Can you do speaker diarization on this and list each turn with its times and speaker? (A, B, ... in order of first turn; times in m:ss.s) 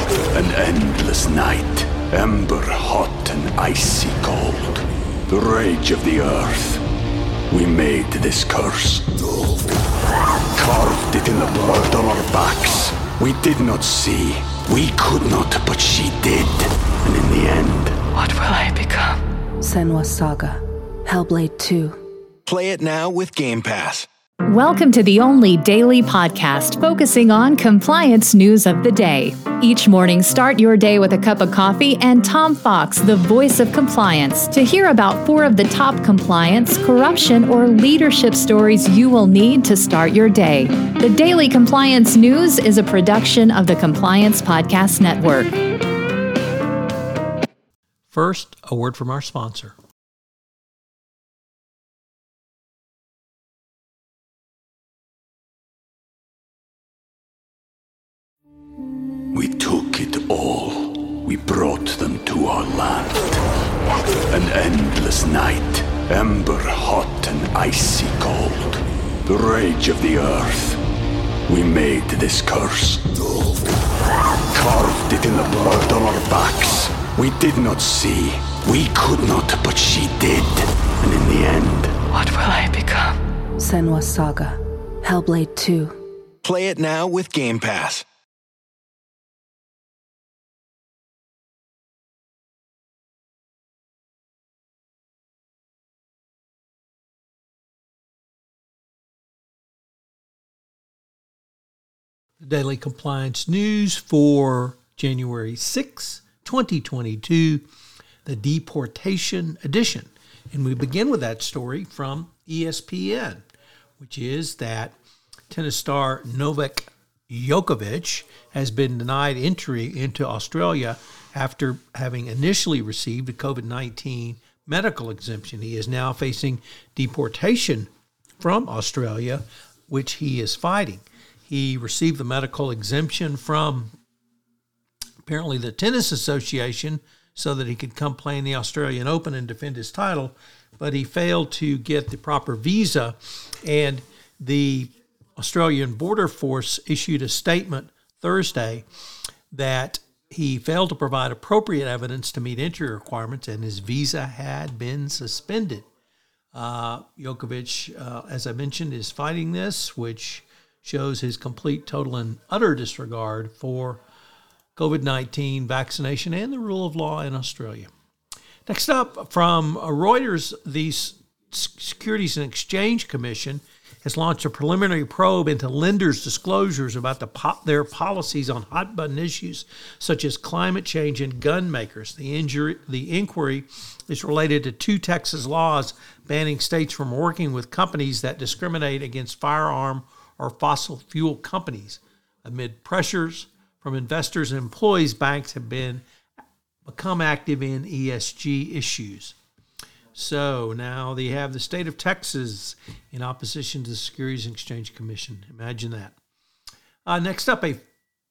0:00.3-0:06.8 A
0:07.5-0:09.2 A
0:10.5-0:18.0 A
0:18.2-0:19.2 B
0:19.6-0:22.0 C
0:22.5-0:24.1 D
0:24.5-0:45.5 E
0:48.1-0:49.8 F
0:59.3-1:03.4 A
1:04.3-1:10.8 A
1:11.5-1:13.0 A
1:14.5-1:22.0 A
1:22.1-1:23.2 B
1:23.6-1:26.0 C
1:26.4-1:28.0 D
1:42.4-1:47.6 F
1:48.2-1:53.4 F
1:54.0-1:55.0 F
1:55.5-2:13.9 F
2:15.2-2:28.8 F
2:29.5-2:35.9 F
2:36.5-2:44.0 F
2:44.8-2:47.9 F
2:48.7-3:16.0 F
3:16.8-3:19.4 F
3:20.2-3:26.2 F
3:27.1-3:27.8 F